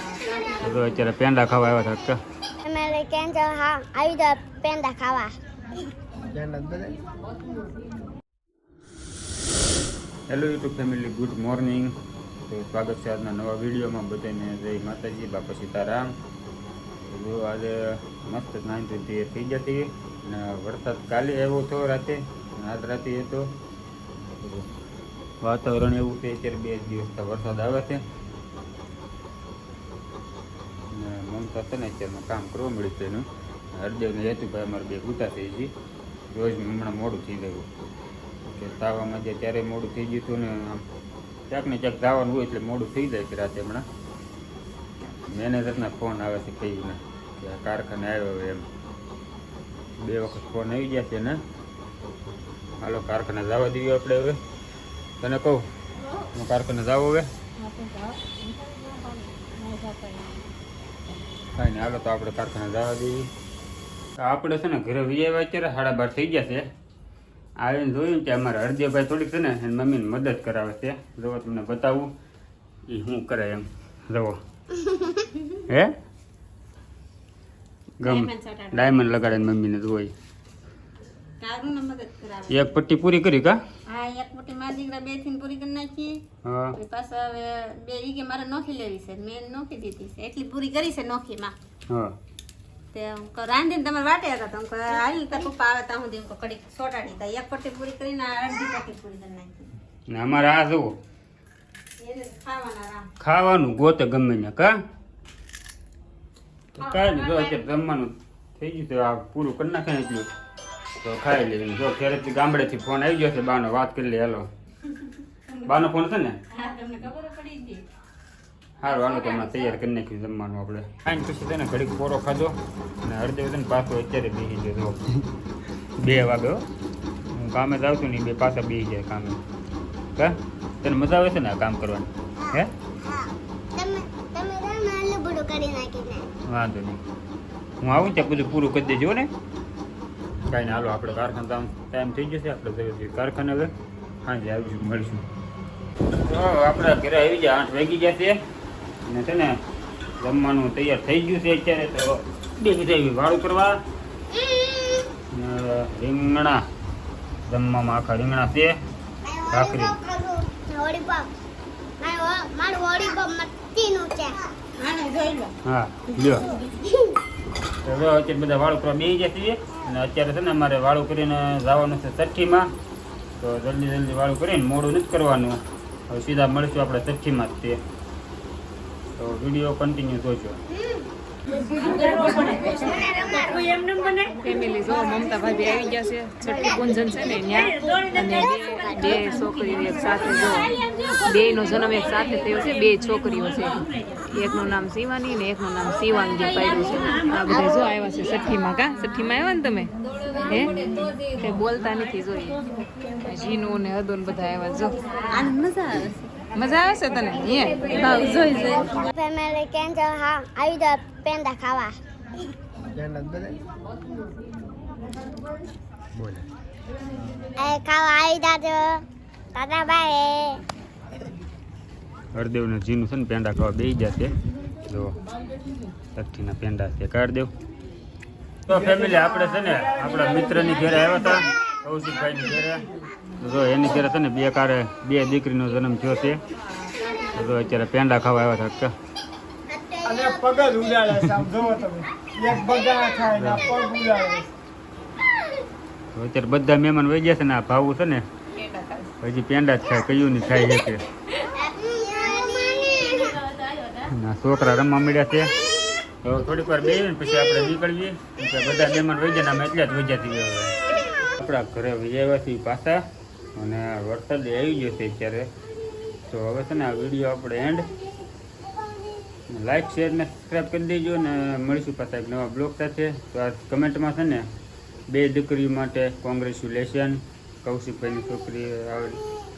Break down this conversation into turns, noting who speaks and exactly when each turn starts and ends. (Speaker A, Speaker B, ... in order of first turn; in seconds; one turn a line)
Speaker A: 0.6-2.2
Speaker B: 2.6-5.3
Speaker C: 6.3-7.0
Speaker A: 10.3-11.9
Speaker A: 12.4-16.1
Speaker A: 17.0-23.5
Speaker A: 24.4-24.7
Speaker A: 25.4-28.0
Speaker A: 30.9-35.7
Speaker A: 36.3-37.7
Speaker A: 38.4-40.9
Speaker A: 41.5-43.9
Speaker A: 45.3-48.7
Speaker A: 50.0-51.4
Speaker A: 52.8-54.4
Speaker A: 55.2-55.6
Speaker A: 56.3-57.3
Speaker D: 57.6-60.2
Speaker A: 61.5-63.3
Speaker A: 64.2-66.7
Speaker A: 67.6-72.1
Speaker A: 72.9-74.4
Speaker A: 75.7-75.9
Speaker A: 78.0-80.1
Speaker E: 78.0-78.9
Speaker E: 81.4-82.6
Speaker A: 82.5-83.6
Speaker E: 83.9-86.2
Speaker A: 86.4-86.8
Speaker E: 86.8-91.5
Speaker E: 92.9-99.7
Speaker A: 100.1-100.9
Speaker E: 102.0-103.1
Speaker A: 103.2-104.8
Speaker A: 106.8-110.3
Speaker E: 106.8-107.6
Speaker A: 111.0-114.5
Speaker A: 115.7-116.4
Speaker E: 116.5-117.8
Speaker A: 118.8-125.3
Speaker E: 118.8-119.8
Speaker A: 126.0-126.6
Speaker A: 127.3-129.4
Speaker A: 130.2-132.7
Speaker B: 132.4-136.3
Speaker A: 136.5-137.0
Speaker A: 137.8-139.3
Speaker A: 140.5-143.7
Speaker A: 144.2-145.2
Speaker A: 146.2-148.4
Speaker A: 149.0-149.6
Speaker A: 150.2-153.8
Speaker B: 154.3-155.0
Speaker A: 155.3-156.6
Speaker A: 157.5-158.8
Speaker B: 159.2-161.3
Speaker A: 159.5-159.9
Speaker B: 162.0-164.4
Speaker E: 164.8-165.5
Speaker A: 165.6-166.4
Speaker A: 167.8-172.7
Speaker A: 173.4-177.8
Speaker A: 179.2-180.6
Speaker E: 182.1-183.7
Speaker D: 184.3-202.6
Speaker D: 203.2-205.0
Speaker E: 205.2-206.4
Speaker D: 206.5-208.0
Speaker E: 207.9-209.0
Speaker B: 208.9-211.9
Speaker C: 212.9-213.6
Speaker A: 216.2-216.4
Speaker B: 217.6-219.0
Speaker B: 219.5-220.6
Speaker A: 222.3-225.1
Speaker A: 226.1-227.5
Speaker A: 228.7-232.8
Speaker A: 233.4-236.4
Speaker A: 237.3-238.9
Speaker B: 239.8-240.2
Speaker C: 240.1-244.5
Speaker A: 243.3-243.7
Speaker A: 246.1-248.2
Speaker E: 248.6-249.0
Speaker A: 249.2-251.0
Speaker B: 251.7-253.3
Speaker A: 254.0-255.5
Speaker A: 256.2-263.0
Speaker A: 263.5-265.5
Speaker A: 266.3-267.9
Speaker A: 269.5-274.5
Speaker A: 275.1-279.2